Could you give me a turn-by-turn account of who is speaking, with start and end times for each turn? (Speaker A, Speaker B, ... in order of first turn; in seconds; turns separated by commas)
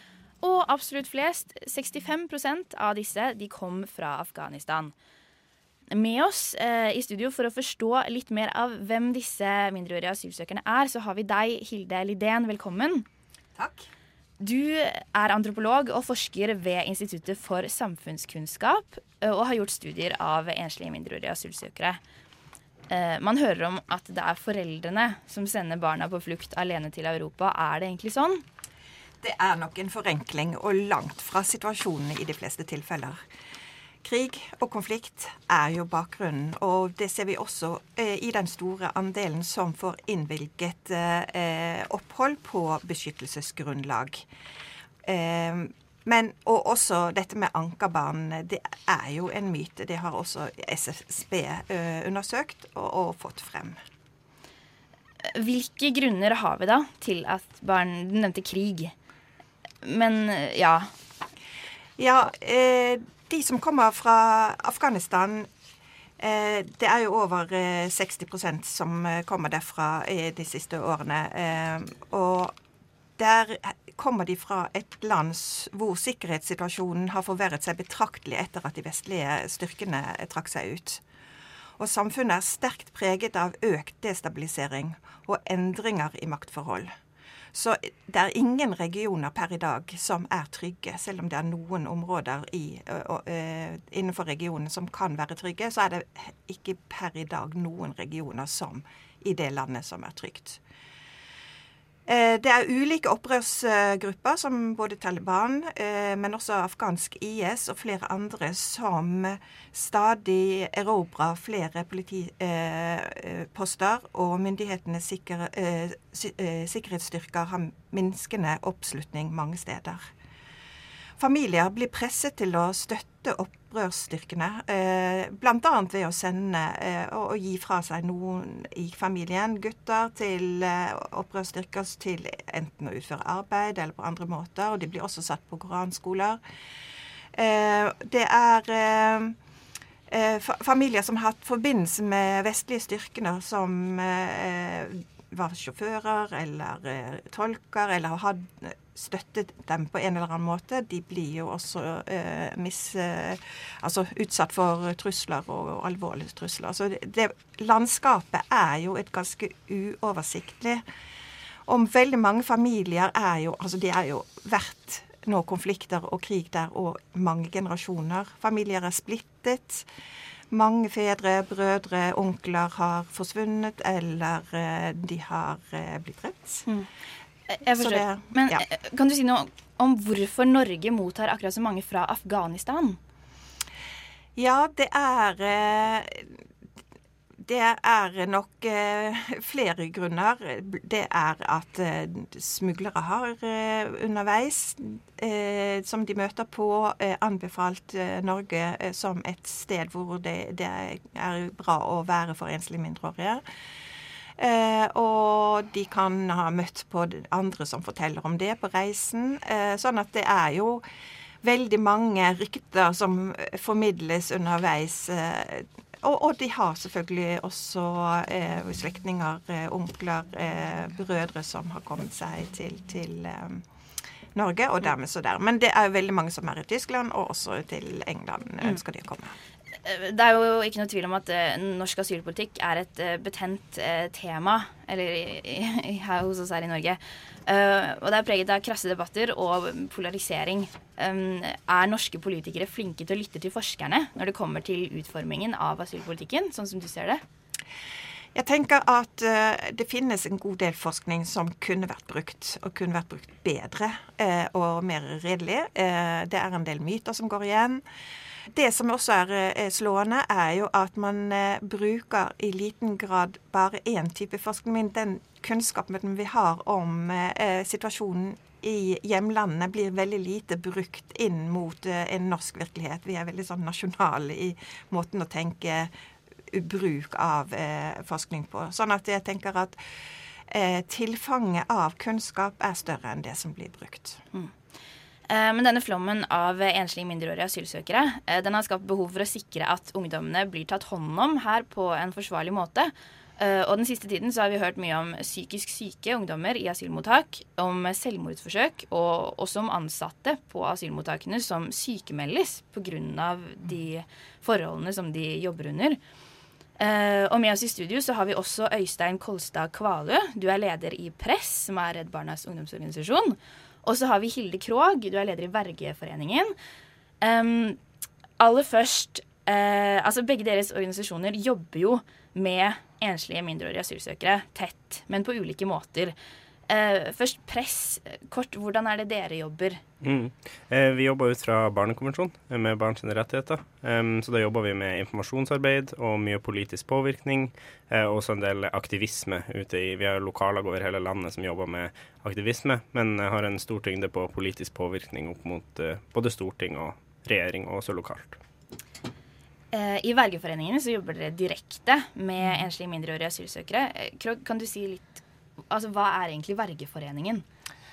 Speaker A: 0.4-4.9, Speaker A: 5.9-13.1, Speaker B: 13.6-13.9, Speaker A: 14.4-22.0, Speaker A: 22.9-28.4, Speaker B: 29.2-33.2, Speaker B: 34.0-44.2, Speaker B: 45.0-53.8, Speaker A: 55.3-58.9, Speaker A: 59.8-60.9, Speaker B: 62.0-65.5, Speaker B: 66.2-72.5, Speaker B: 73.2-81.0, Speaker B: 81.8-86.9, Speaker B: 87.5-100.6, Speaker B: 102.1-120.0, Speaker B: 121.2-136.4, Speaker B: 137.3-139.3, Speaker B: 140.1-160.8, Speaker B: 161.7-169.8, Speaker B: 170.5-176.7, Speaker A: 177.5-183.0, Speaker B: 177.7-178.6, Speaker B: 184.3-186.4, Speaker B: 187.4-203.4, Speaker B: 204.4-210.8, Speaker B: 211.4-223.6, Speaker B: 224.3-229.4, Speaker A: 229.8-247.2, Speaker B: 248.3-257.8, Speaker B: 258.5-275.9, Speaker B: 276.5-279.8, Speaker B: 280.5-284.2, Speaker A: 285.3-306.0, Speaker A: 306.8-316.5, Speaker A: 317.2-317.8, Speaker A: 318.4-326.1, Speaker A: 326.7-329.8, Speaker C: 330.0-348.4, Speaker A: 349.7-357.4